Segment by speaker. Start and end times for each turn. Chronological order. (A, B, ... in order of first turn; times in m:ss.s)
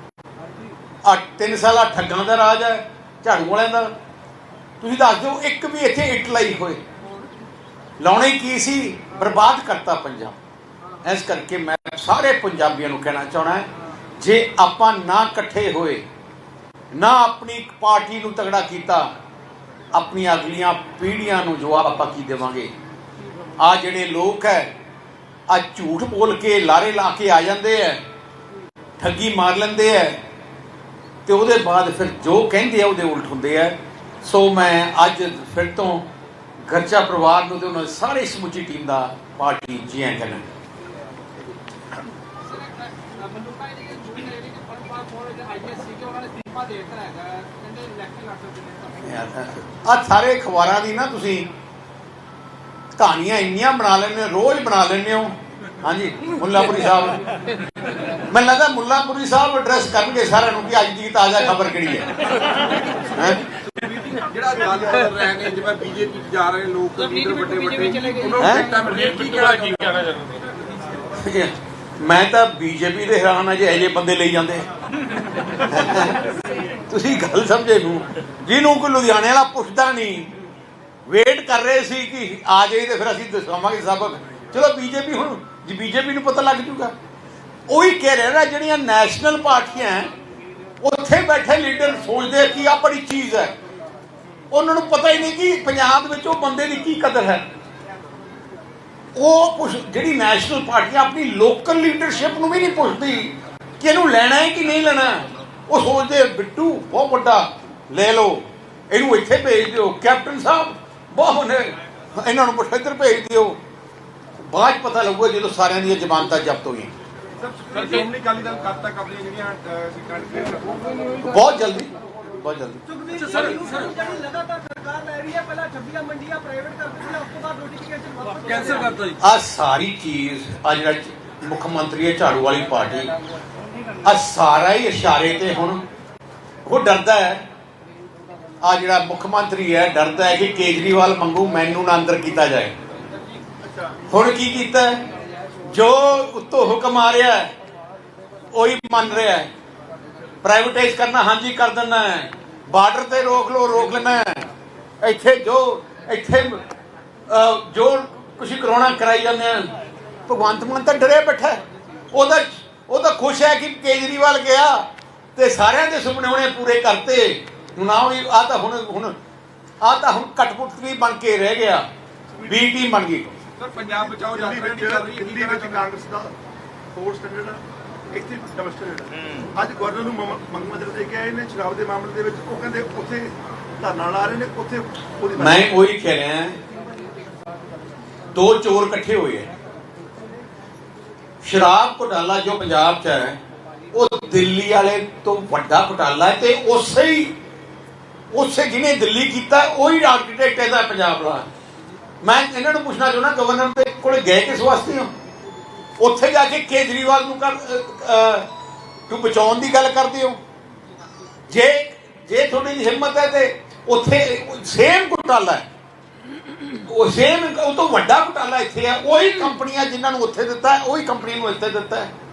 0:01.0-0:03.9 A
0:04.8-0:06.8 A
0:08.0-0:10.4 A
0:11.0-0:16.0 A
0:16.9-0:19.1 A
0:19.9-0:22.7 A
0:23.6-0:24.7 A
0:25.5-0:28.0 A
0:29.0-0:30.2 A
0:31.3-0:36.1 A
0:36.7-0:40.5 A
0:42.5-0:48.8 B
0:49.0-0:51.5 A
0:52.9-0:57.2 A
0:58.3-1:02.2 A
1:03.1-1:03.4 A
1:03.7-1:10.4 C
1:08.4-1:08.7 A
1:11.1-1:14.7 A
1:15.5-1:16.3 A
1:16.9-1:20.3 A
1:21.1-1:26.9 A
1:27.7-1:30.1 A
1:30.8-1:33.6 A
1:34.5-1:37.4 A
1:39.2-1:53.6 A
1:54.5-1:56.9 A
1:57.4-2:00.9 C
2:01.2-2:03.0 A
2:03.0-2:08.5 B
2:03.1-2:04.0 C
2:08.3-2:09.0 C
2:09.2-2:13.1 A
2:14.0-2:15.8 A
2:16.6-2:17.5 A
2:18.6-2:22.8 A
2:23.6-2:24.0 D
2:24.1-2:25.0 A
2:25.6-2:27.5 A
2:28.5-2:29.5 A
2:30.4-2:34.5 A
2:35.0-2:36.6 A
2:37.3-2:39.7 A
2:40.3-2:49.2 A
2:49.8-2:51.8 A
2:52.4-2:53.3 A
2:53.6-2:55.9 C
2:53.8-2:56.3 D
2:56.9-3:05.7 D
3:05.4-3:06.6 A
3:08.3-3:09.5 A
3:11.4-3:13.4 A
3:13.9-3:17.4 A
3:18.3-3:21.5 A
3:22.2-3:25.1 A
3:26.0-3:28.5 A
3:29.1-3:30.4 A
3:31.5-3:35.7 A
3:36.7-3:42.1 A